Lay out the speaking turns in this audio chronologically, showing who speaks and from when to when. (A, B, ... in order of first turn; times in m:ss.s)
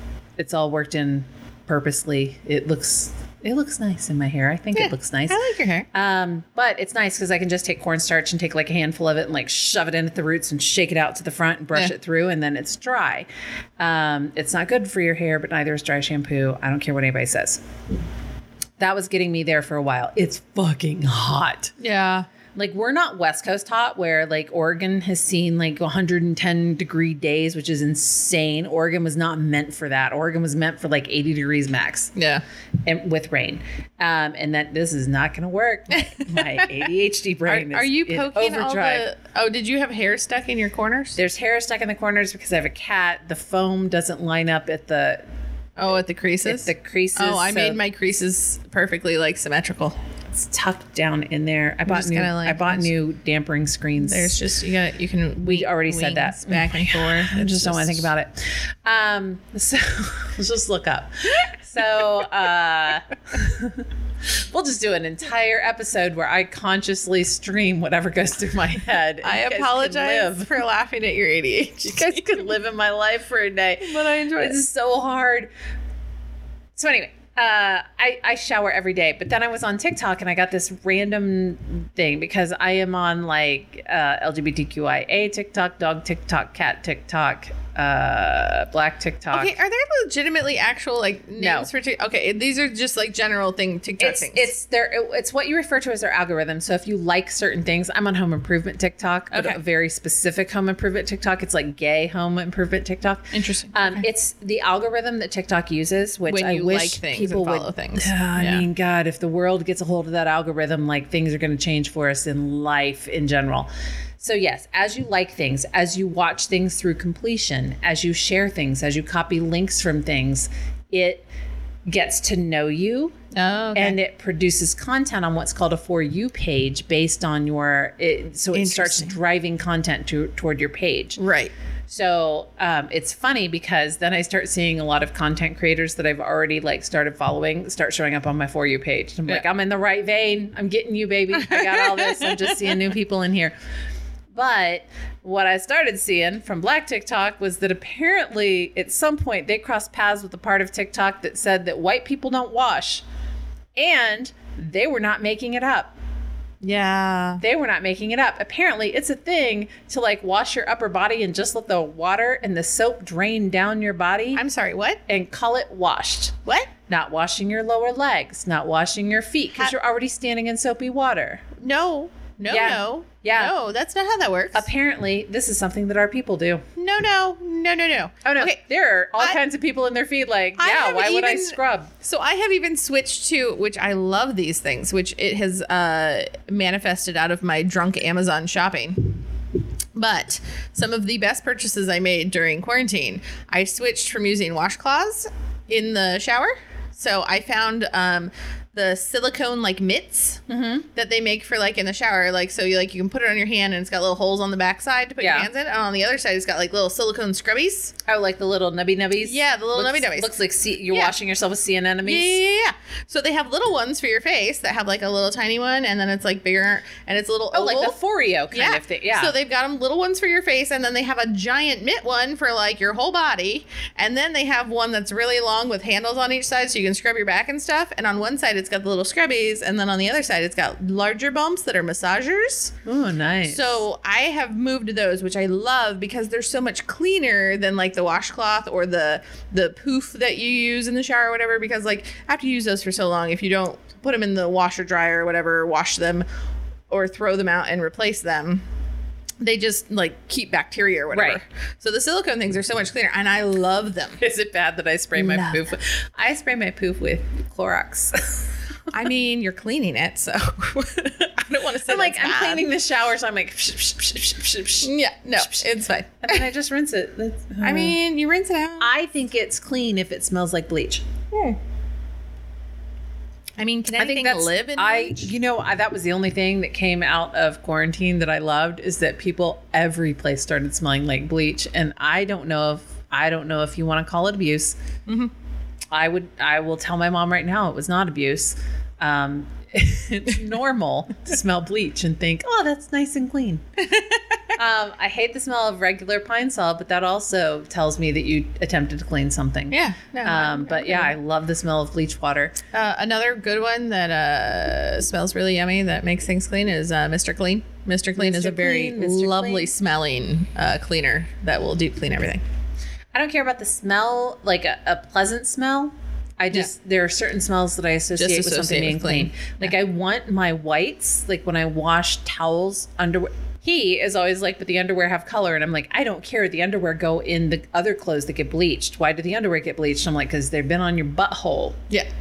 0:00.4-0:05.4 A
0:04.8-0:05.9 B
0:05.9-0:13.3 A
0:13.8-0:17.6 A
0:18.8-0:21.8 A
0:21.8-0:22.3 B
0:22.6-0:32.1 A
0:32.2-0:32.4 B
0:32.9-0:39.1 A
0:35.9-0:36.6 B
0:37.5-0:41.2 B
0:41.2-0:45.2 A
0:45.8-0:50.0 B
0:46.4-0:47.8 A
0:50.3-0:54.4 A
0:51.9-0:52.9 B
0:54.0-0:58.1 B
0:55.4-1:10.5 A
1:09.2-1:12.4 B
1:11.9-1:15.5 A
1:13.8-1:14.6 B
1:16.8-1:29.5 A
1:29.3-1:34.5 B
1:31.4-1:31.7 A
1:34.0-1:53.7 A
1:39.3-1:39.6 B
1:43.3-1:44.0 B
1:46.3-1:48.6 B
1:54.2-2:01.2 A
2:01.9-2:03.2 A
2:03.3-2:04.0 B
2:03.8-2:11.2 A
2:08.5-2:09.2 B
2:11.2-2:11.5 B
2:11.9-2:23.5 A
2:21.3-2:22.9 B
2:24.3-2:33.0 A
2:33.8-2:35.9 A
2:36.6-2:37.4 B
2:37.4-2:44.4 A
2:44.4-2:45.0 B
2:45.1-2:51.5 A
2:46.5-2:46.7 B
2:51.6-2:54.7 B
2:52.5-2:53.6 A
2:54.5-2:56.6 A
2:56.8-2:58.6 B
2:58.2-3:01.9 A
3:00.6-3:09.2 B
3:09.9-3:20.4 B
3:20.5-3:20.9 A
3:20.9-3:28.0 B
3:25.2-3:25.5 A
3:28.1-3:32.4 A
3:29.2-3:30.4 B
3:32.0-3:38.0 B
3:37.5-3:39.3 A
3:38.5-3:52.8 B
3:52.8-3:53.8 A
3:53.5-4:06.2 B
4:06.9-4:08.6 B
4:09.4-4:14.2 B
4:11.1-4:11.4 A
4:14.2-4:18.5 A
4:15.2-4:15.7 B
4:18.9-4:22.7 B
4:21.9-4:25.7 A
4:24.8-4:26.4 B
4:26.2-4:28.0 A
4:27.6-4:28.9 B
4:28.8-4:31.0 A
4:31.3-4:31.6 B
4:33.6-4:35.3 B
4:33.9-4:44.8 A
4:45.1-4:45.3 B
4:45.9-4:53.6 A
4:53.8-4:54.4 B
4:54.6-5:02.6 A
4:59.7-5:01.1 B
5:02.7-5:12.4 B
5:08.2-5:09.7 A
5:13.1-5:31.8 A
5:18.2-5:19.7 B